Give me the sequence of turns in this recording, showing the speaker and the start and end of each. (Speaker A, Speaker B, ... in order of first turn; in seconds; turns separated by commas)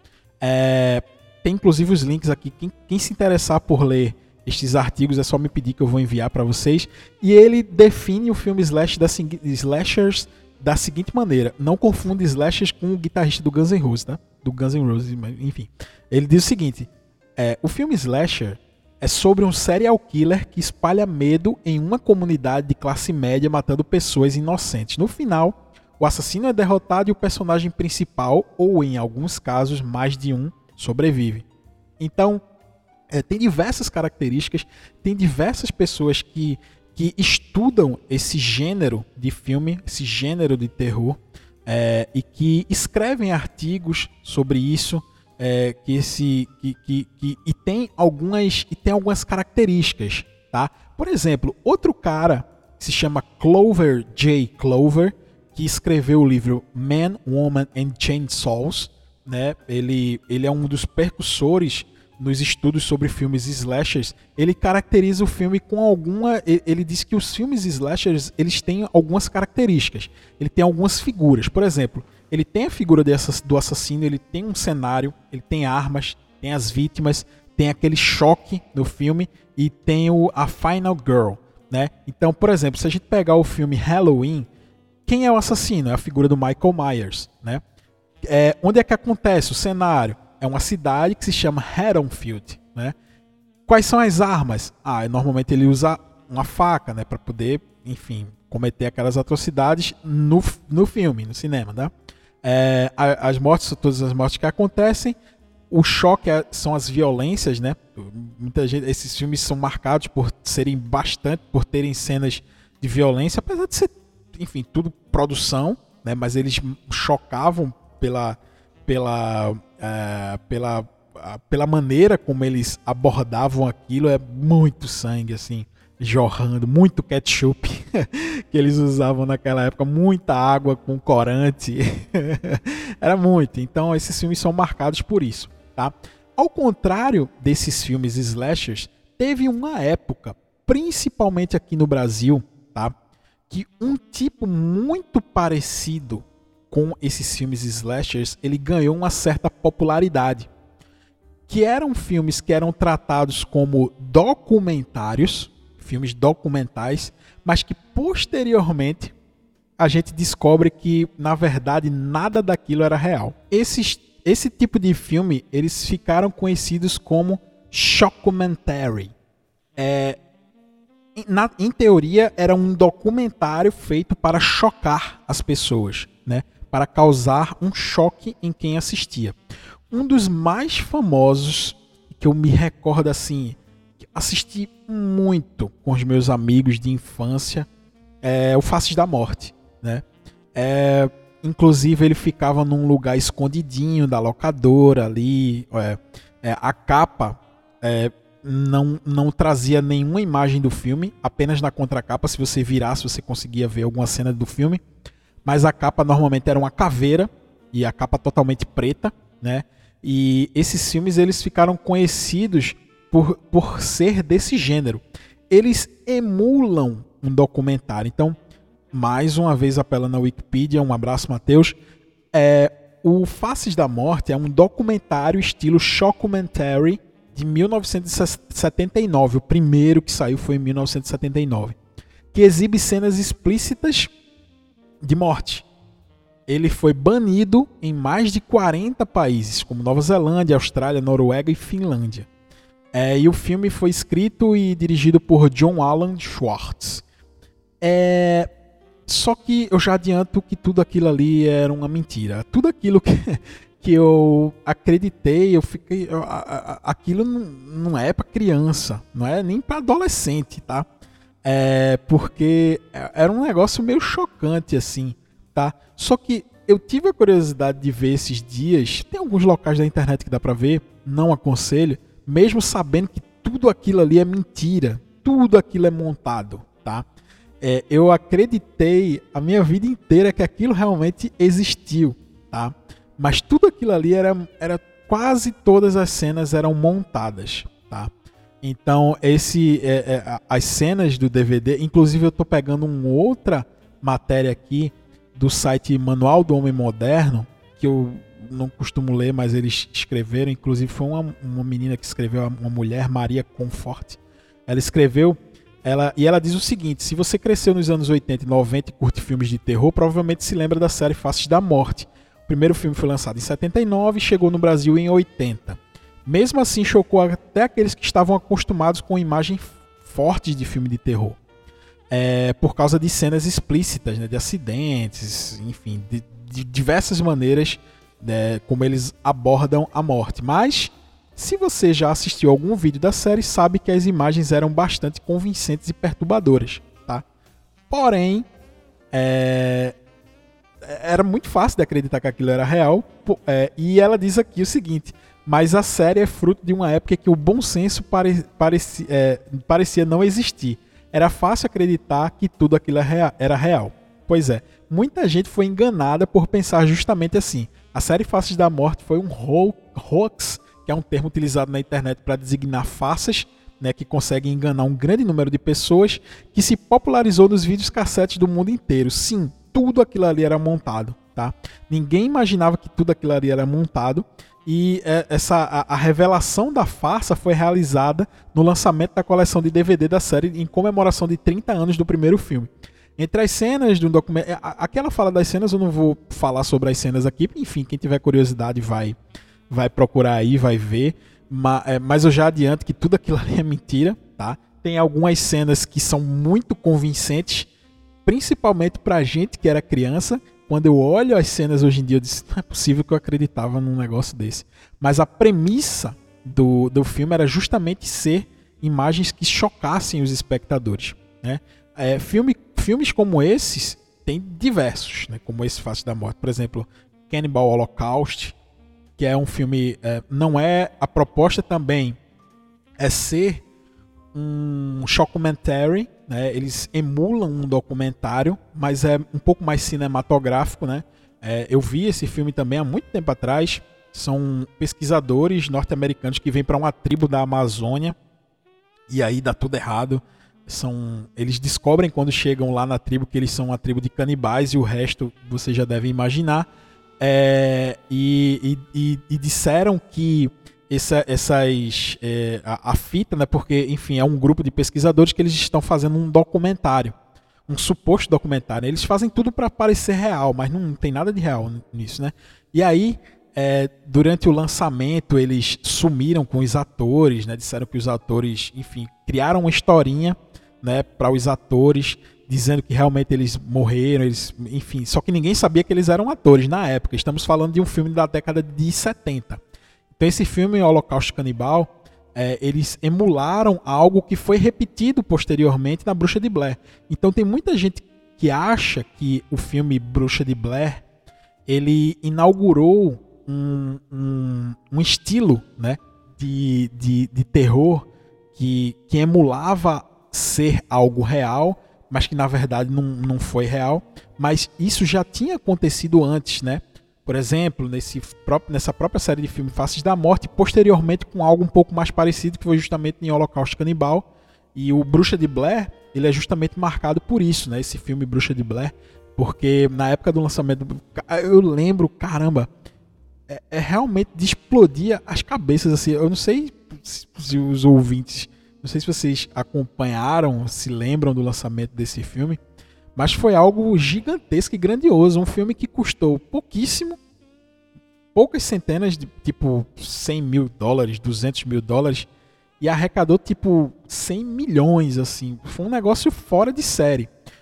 Speaker A: 0.4-31.4, Speaker A: 32.0-32.4, Speaker A: 33.1-84.5, Speaker A: 85.0-87.6, Speaker A: 88.2-92.9, Speaker A: 93.7-101.9, Speaker A: 102.4-105.2, Speaker A: 105.7-142.9, Speaker A: 143.5-150.5, Speaker A: 151.5-159.1, Speaker A: 159.8-169.1, Speaker A: 169.8-170.2, Speaker A: 171.2-179.3, Speaker A: 179.9-187.7, Speaker A: 188.2-190.0, Speaker A: 190.5-204.8, Speaker A: 205.4-218.3, Speaker A: 218.9-221.8, Speaker A: 222.3-231.8, Speaker A: 232.3-234.1, Speaker A: 235.0-235.7, Speaker A: 236.5-242.3, Speaker A: 242.9-247.0, Speaker A: 247.8-248.5, Speaker A: 249.1-260.9, Speaker A: 261.4-277.0, Speaker A: 277.6-288.1, Speaker A: 288.6-321.4, Speaker A: 322.1-337.2, Speaker A: 337.9-338.4, Speaker A: 339.1-339.9, Speaker A: 340.8-389.2, Speaker A: 389.7-397.7, Speaker A: 398.2-418.6, Speaker A: 419.2-422.2, Speaker A: 423.0-423.6, Speaker A: 424.3-438.1, Speaker A: 439.1-446.7, Speaker A: 447.2-457.1, Speaker A: 457.7-479.6, Speaker A: 480.1-491.0, Speaker A: 491.7-522.7, Speaker A: 523.5-532.6, Speaker A: 533.1-537.2, Speaker A: 538.3-542.3, Speaker A: 542.8-547.3